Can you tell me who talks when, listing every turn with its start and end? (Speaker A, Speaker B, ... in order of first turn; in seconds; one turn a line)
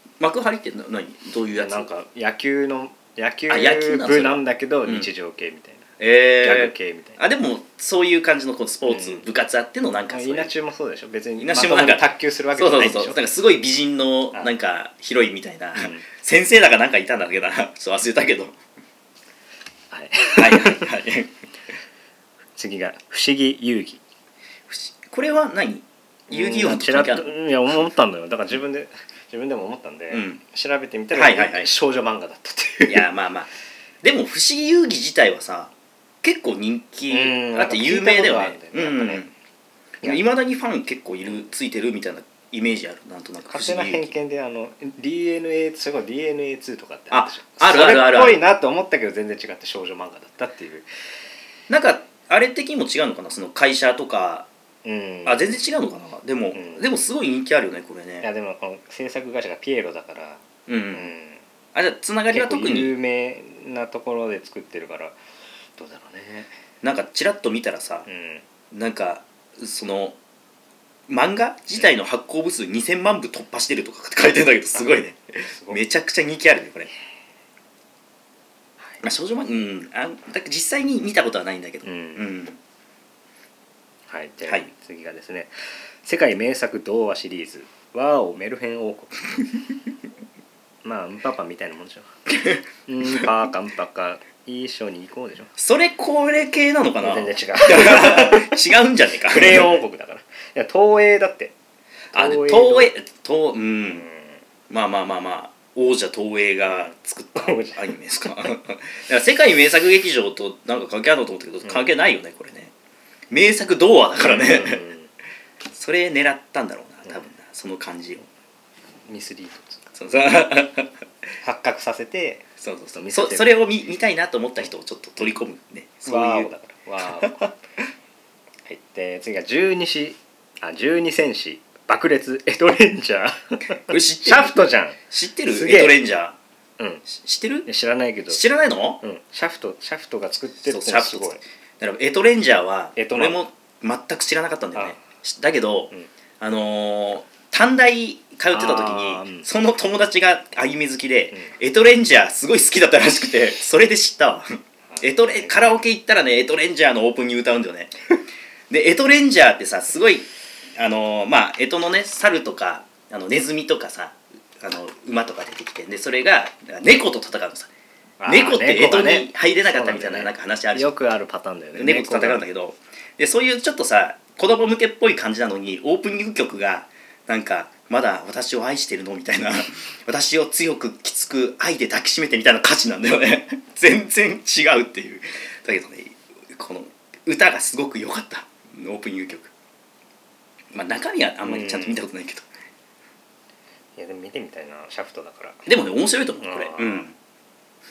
Speaker A: 0.2-1.9
Speaker B: 1.5-5.9
Speaker A: 3.5-5.1
Speaker A: 6.0-10.5
Speaker B: 6.4-7.2
Speaker B: 8.9-9.2
Speaker B: 10.1-13.2
Speaker A: 11.4-18.6
Speaker B: 15.7-16.0
Speaker B: 19.9-20.9
Speaker A: 20.3-21.3
Speaker B: 22.6-24.0
Speaker A: 24.7-27.3
Speaker B: 26.3-33.1
Speaker A: 30.1-30.4
Speaker A: 31.1-31.7
Speaker A: 32.9-33.5
Speaker A: 34.0-39.3
Speaker B: 37.1-39.2
Speaker A: 40.0-44.1
Speaker B: 43.5-50.9
Speaker A: 47.1-48.4
Speaker A: 51.7-54.5
Speaker B: 54.8-55.6
Speaker A: 55.2-58.2
Speaker B: 56.5-56.9
Speaker B: 58.2-61.4
Speaker A: 60.7-61.1
Speaker A: 61.7-62.9
Speaker B: 62.3-65.2
Speaker B: 65.8-66.5
Speaker A: 66.8-68.0
Speaker B: 68.0-68.4
Speaker A: 68.7-70.2
Speaker A: 71.1-76.9
Speaker B: 74.7-75.8
Speaker A: 79.0-82.6
Speaker B: 81.8-82.3
Speaker B: 84.1-89.4
Speaker B: 90.8-92.1
Speaker A: 92.3-92.6
Speaker B: 92.8-95.5
Speaker A: 95.6-99.8
Speaker B: 97.0-98.6
Speaker B: 99.3-101.5
Speaker B: 102.1-102.9
Speaker A: 102.1-104.0
Speaker B: 103.9-104.3
Speaker A: 104.7-112.7
Speaker B: 106.7-108.5
Speaker A: 113.3-114.8
Speaker B: 114.2-115.1
Speaker A: 115.7-118.2
Speaker B: 119.1-119.8
Speaker A: 119.9-121.0
Speaker B: 121.4-123.5
Speaker A: 122.6-126.5
Speaker B: 126.0-127.4
Speaker A: 127.0-127.5
Speaker B: 128.7-135.0
Speaker A: 133.9-136.4
Speaker B: 135.5-136.0
Speaker B: 136.8-137.1
Speaker A: 137.1-137.7
Speaker B: 137.7-138.4
Speaker A: 138.3-139.0
Speaker B: 139.0-141.4
Speaker A: 140.6-157.9
Speaker B: 142.9-143.4
Speaker B: 144.7-145.0
Speaker B: 148.5-149.5
Speaker B: 154.9-155.8
Speaker A: 158.7-167.7
Speaker B: 168.2-172.4
Speaker A: 168.3-170.9
Speaker A: 171.8-189.5
Speaker A: 190.7-192.5
Speaker B: 191.4-192.0
Speaker B: 193.9-195.7
Speaker A: 195.7-197.1
Speaker B: 196.4-197.1